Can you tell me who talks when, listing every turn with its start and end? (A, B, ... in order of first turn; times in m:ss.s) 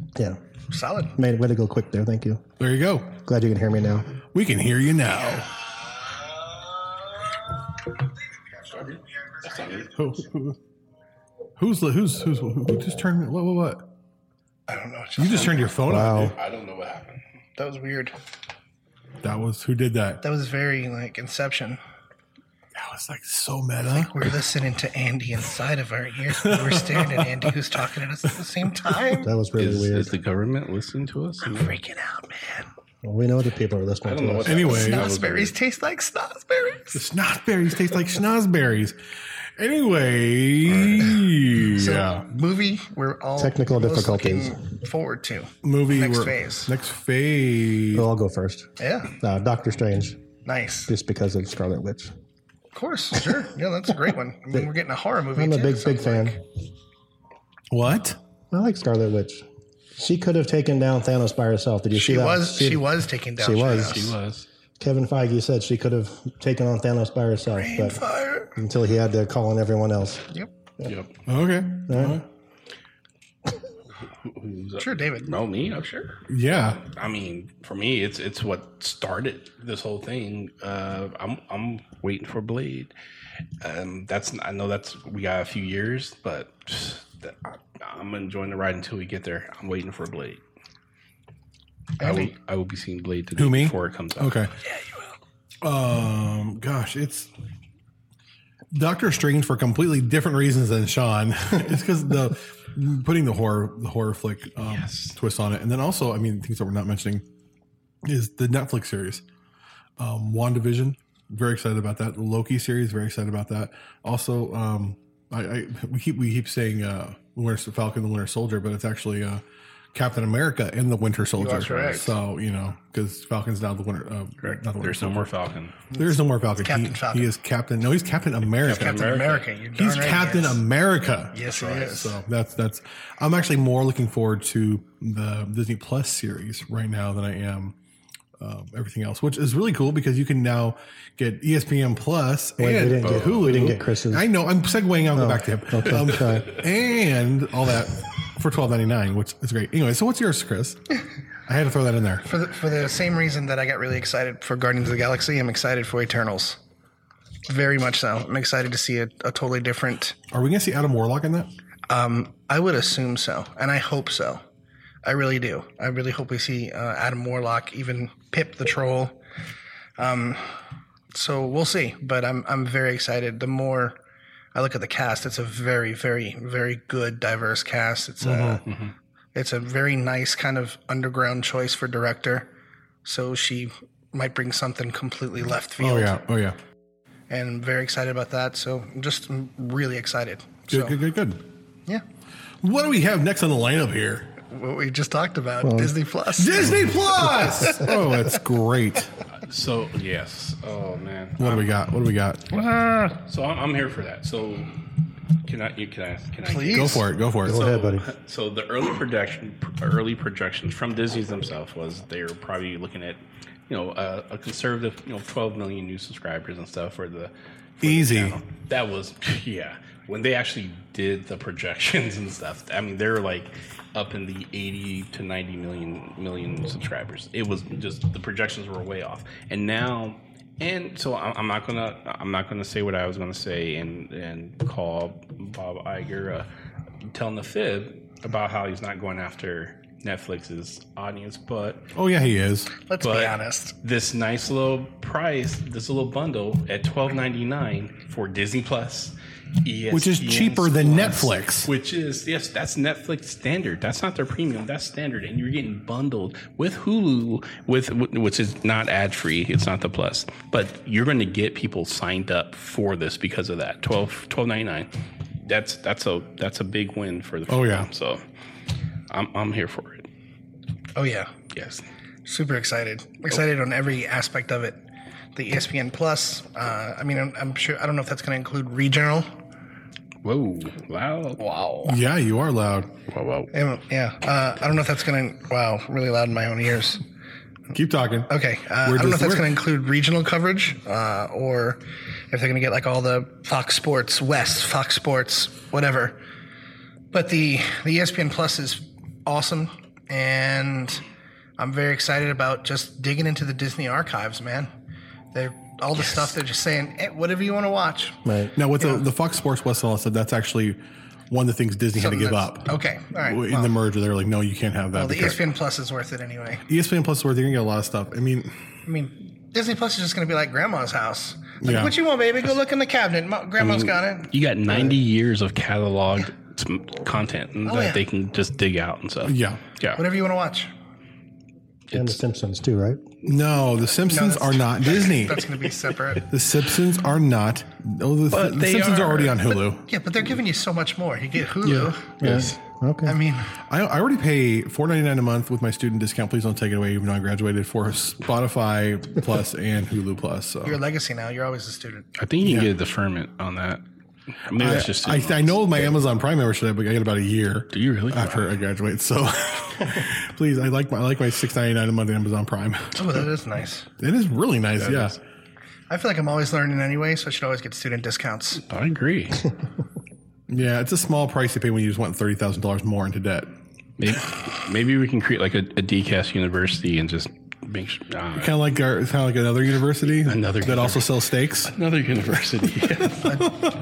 0:00.7-0:01.1 A
0:01.1-0:02.4 B
0:02.6-0:03.2 C
0:03.2-0:04.2 B
0:04.2-0:05.5 C
0:08.7-0:09.9 D
0:09.8-0:10.6 C
0:11.6-0:13.9 C
0:14.7-0:15.8 A
0:15.2-0:16.4 C
0:15.8-0:16.4 B
0:16.1-0:17.2 D
0:17.6-0:18.2 A
0:19.2-0:20.2 C
0:20.2-0:21.8 A
0:22.7-0:24.3 C
0:23.8-0:29.3 A
0:26.4-0:27.3 C
0:29.2-0:30.1 B
0:29.6-0:31.7 D
0:31.4-0:32.7 A
0:33.0-0:34.8 B
0:34.0-0:35.5 D
0:34.4-0:35.1 C
0:34.6-0:37.0 A
0:36.9-0:39.0 C
0:39.6-0:42.2 C
0:40.6-0:41.1 D
0:41.7-0:46.7 A
0:43.4-0:44.6 B
0:45.6-0:48.0 C
0:47.9-0:50.2 B
0:48.8-0:49.1 A
0:50.4-0:50.9 A
0:50.9-0:52.1 B
0:52.7-0:56.4 A
0:55.3-0:56.4 B
0:57.7-0:58.2 C
0:58.5-0:59.4 B
1:00.0-1:04.1 B
1:01.9-1:04.1 A
1:03.7-1:04.4 D
1:04.8-1:08.0 B
1:07.5-1:08.5 A
1:08.5-1:10.3 B
1:10.8-1:11.1 D
1:11.3-1:12.2 C
1:11.9-1:12.2 B
1:14.2-1:22.9 D
1:14.8-1:15.3 A
1:16.3-1:16.8 C
1:23.6-1:30.4 D
1:32.0-1:32.3 A
1:32.0-1:34.4 D
1:33.4-1:34.5 C
1:34.7-1:35.0 A
1:35.6-1:37.3 C
1:38.7-1:47.2 C
1:44.7-1:45.2 D
1:48.0-1:49.2 C
1:50.0-1:59.4 C
1:59.9-2:05.3 C
2:01.4-2:02.1 A
2:04.4-2:05.8 D
2:05.9-2:07.3 A
2:05.9-2:09.1 C
2:08.5-2:09.5 D
2:08.6-2:10.6 A
2:09.8-2:17.8 C
2:11.3-2:12.2 A
2:18.4-2:32.2 C
2:22.6-2:24.3 B
2:23.0-2:23.5 D
2:25.1-2:26.6 B
2:32.2-2:36.6 A
2:37.4-2:40.2 A
2:40.3-2:41.5 C
2:41.9-2:44.4 A
2:45.0-2:49.2 A
2:50.0-2:50.6 A
2:51.1-2:54.0 A
2:54.5-2:58.6 A
2:58.2-2:58.6 C
2:58.7-2:58.9 D
2:59.3-3:02.5 A
3:03.0-3:06.2 A
3:05.8-3:06.6 C
3:07.3-3:11.0 A
3:10.7-3:11.4 C
3:12.6-3:14.3 C
3:14.4-3:18.0 A
3:15.6-3:15.9 B
3:16.3-3:19.1 C
3:19.4-3:21.7 D
3:21.4-3:22.5 C
3:22.6-3:23.1 A
3:23.1-3:24.7 D
3:25.4-3:56.5 D
3:26.4-3:27.0 A
3:26.7-3:27.6 C
3:27.4-3:28.1 B
3:37.8-3:38.4 C
3:57.1-4:01.9 D
4:01.9-4:02.7 C
4:02.8-4:03.7 A
4:03.0-4:28.2 D
4:09.9-4:11.7 C
4:27.5-4:27.9 C
4:29.1-4:30.1 D
4:30.9-4:31.3 A
4:31.5-4:31.8 D
4:32.2-4:34.8 A
4:35.3-4:39.4 A
4:40.2-4:41.9 D
4:41.8-4:42.9 C
4:43.1-4:43.5 D
4:43.5-4:47.0 A
4:47.7-4:49.5 C
4:48.3-4:56.2 A
4:57.1-5:01.0 A
5:01.6-5:04.7 A
5:05.3-5:08.2 A
5:08.2-5:08.5 B
5:08.6-5:15.4 C
5:08.8-5:09.0 A
5:11.9-5:13.7 A
5:14.9-5:16.6 A
5:16.7-5:18.6 C
5:18.8-5:24.3 A
5:21.6-5:21.9 C
5:23.6-5:30.0 D
5:27.6-5:28.0 A
5:29.2-5:29.6 C
5:30.0-5:30.7 A
5:31.9-5:32.2 D
5:31.9-5:33.0 B
5:33.2-5:35.5 C
5:34.0-5:36.3 A
5:36.2-5:39.8 C
5:38.3-5:39.6 D
5:39.8-5:42.4 A
5:41.6-5:42.5 C
5:42.2-5:43.2 B
5:43.0-5:43.6 A
5:43.6-5:50.8 C
5:50.6-5:52.1 A
5:52.2-5:53.8 D
5:52.4-5:52.7 C
5:54.4-5:55.6 D
5:54.6-6:03.3 C
5:57.7-5:58.5 D
6:03.0-6:03.9 A
6:04.0-6:05.2 C
6:04.8-6:05.2 D
6:05.9-6:08.6 A
6:08.6-6:09.5 D
6:10.5-6:13.5 C
6:14.0-6:18.6 D
6:18.4-6:21.7 C
6:20.2-6:21.1 D
6:21.7-6:23.4 D